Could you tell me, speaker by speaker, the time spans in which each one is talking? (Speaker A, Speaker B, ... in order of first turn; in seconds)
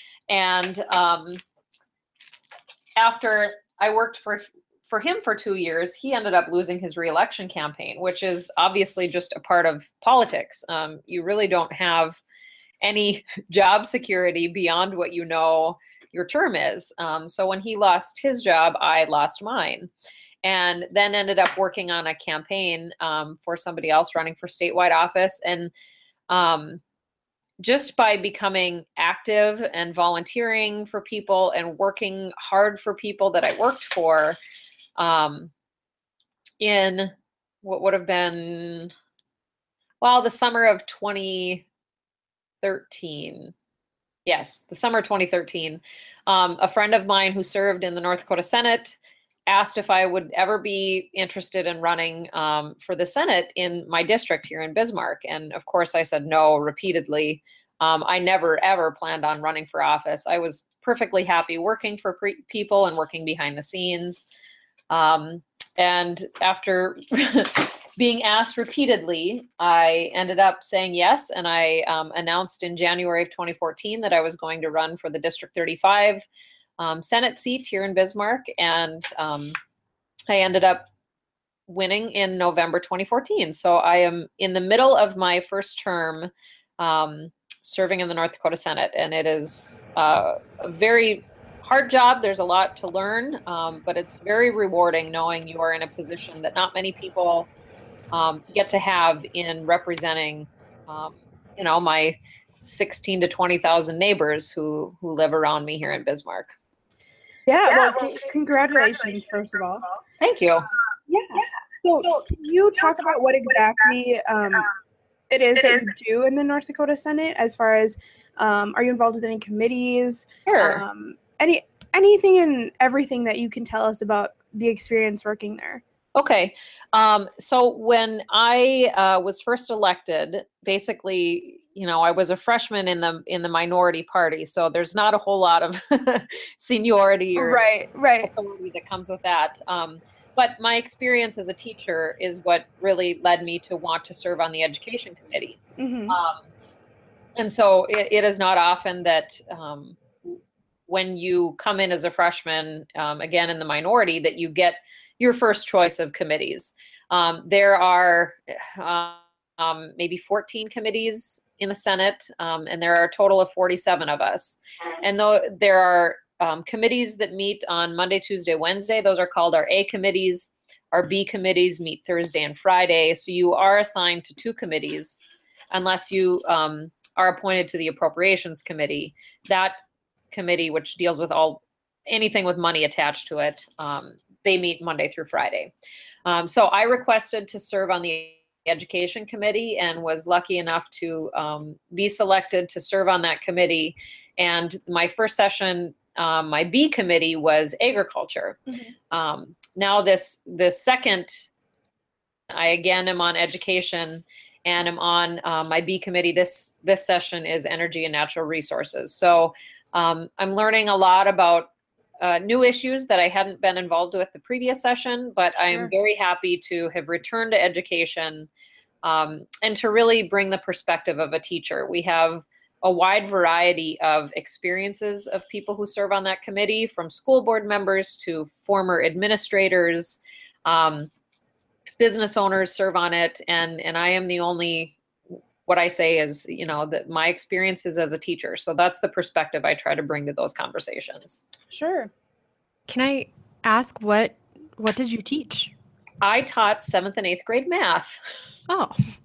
Speaker A: 0.3-1.4, 3.0-12.2, 12.8-19.9, 20.4-25.7, 26.3-26.8, 27.6-34.4, 35.0-35.5, 36.6-38.9, 40.0-41.6, 42.6-43.5, 44.2-64.3, 64.9-76.2, 76.8-79.5, 80.3-80.9, 81.7-97.5, 98.1-106.5, 110.2-110.6, 120.5-120.8, 126.1-137.7, 138.2-145.6, 146.1-146.4, 147.3-150.3, 150.9-175.2, 175.7-179.7, 180.3-185.7, 186.2-198.6, 199.1-201.5, 202.5-211.7, 212.2-218.5, 219.0-231.1, 232.0-235.0, 235.7-241.4, 246.2-248.2
Speaker B: 107.5-109.8, 111.1-114.7, 115.3-125.8, 137.3-138.3, 145.8-146.2, 241.7-242.1
Speaker C: 242.9-245.7, 248.7-249.0